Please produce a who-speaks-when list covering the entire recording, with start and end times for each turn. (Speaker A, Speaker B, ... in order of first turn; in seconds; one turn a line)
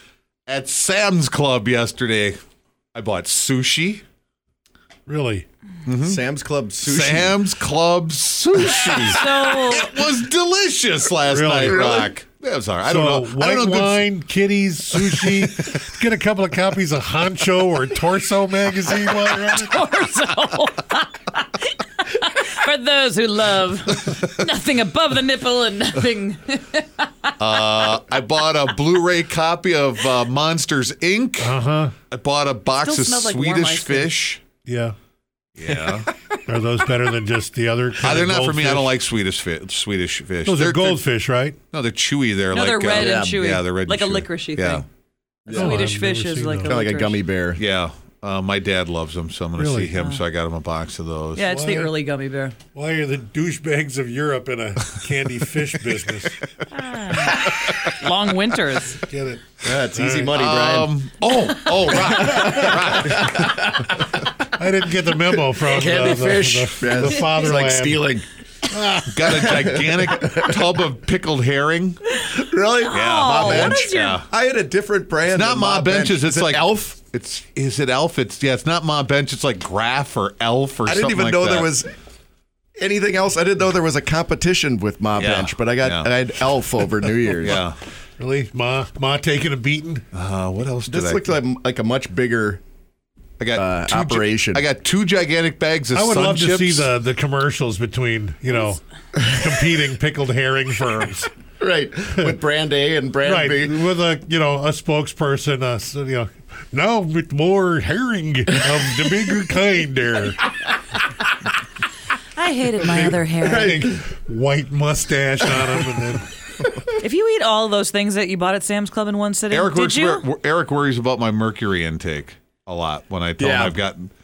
Speaker A: 0.5-2.4
Speaker A: 2.9-4.0
Speaker B: 5.1-5.5
Speaker A: 5.8-6.2
Speaker C: 6.0-7.4
Speaker A: 6.8-14.1
Speaker D: 8.6-10.0
Speaker B: 11.3-12.1
Speaker B: 12.8-19.8
Speaker A: 14.9-15.7
Speaker D: 19.2-27.3
Speaker A: 27.4-31.6
Speaker B: 31.4-31.9
Speaker A: 32.1-34.4
Speaker D: 32.8-34.2
Speaker B: 34.6-34.9
Speaker A: 35.6-36.1
Speaker B: 36.5-38.9
Speaker A: 38.0-41.0
Speaker B: 40.4-41.6
Speaker A: 41.7-44.8
Speaker D: 42.5-44.9
Speaker C: 42.9-43.4
Speaker C: 45.5-45.8
Speaker D: 45.5-47.2
Speaker B: 45.5-46.7
Speaker C: 46.6-47.6
Speaker A: 47.5-51.5
Speaker B: 49.6-50.0
Speaker D: 51.4-52.5
Speaker B: 51.4-51.9
Speaker B: 52.7-56.5
Speaker D: 56.7-59.0
Speaker B: 58.9-60.4
Speaker C: 59.6-60.9
Speaker A: 60.3-63.7
Speaker C: 62.1-63.5
Speaker B: 64.5-68.2
Speaker C: 65.7-70.6
Speaker D: 66.0-66.5
Speaker B: 68.7-69.1
Speaker A: 69.1-72.1
Speaker C: 72.3-77.0
Speaker D: 72.7-74.2
Speaker A: 72.9-74.3
Speaker A: 75.3-81.7
Speaker C: 80.8-81.9
Speaker C: 82.8-87.6
Speaker A: 85.2-86.1
Speaker A: 87.4-87.8
Speaker B: 88.2-90.0
Speaker A: 90.1-91.3
Speaker C: 90.9-92.6
Speaker A: 93.4-96.9
Speaker C: 93.5-94.6
Speaker B: 95.9-101.3
Speaker C: 101.6-103.8
Speaker B: 103.2-110.4
Speaker D: 112.3-113.8
Speaker B: 112.8-116.3
Speaker C: 113.4-114.0
Speaker D: 117.0-120.2
Speaker A: 119.5-124.1
Speaker C: 123.4-123.8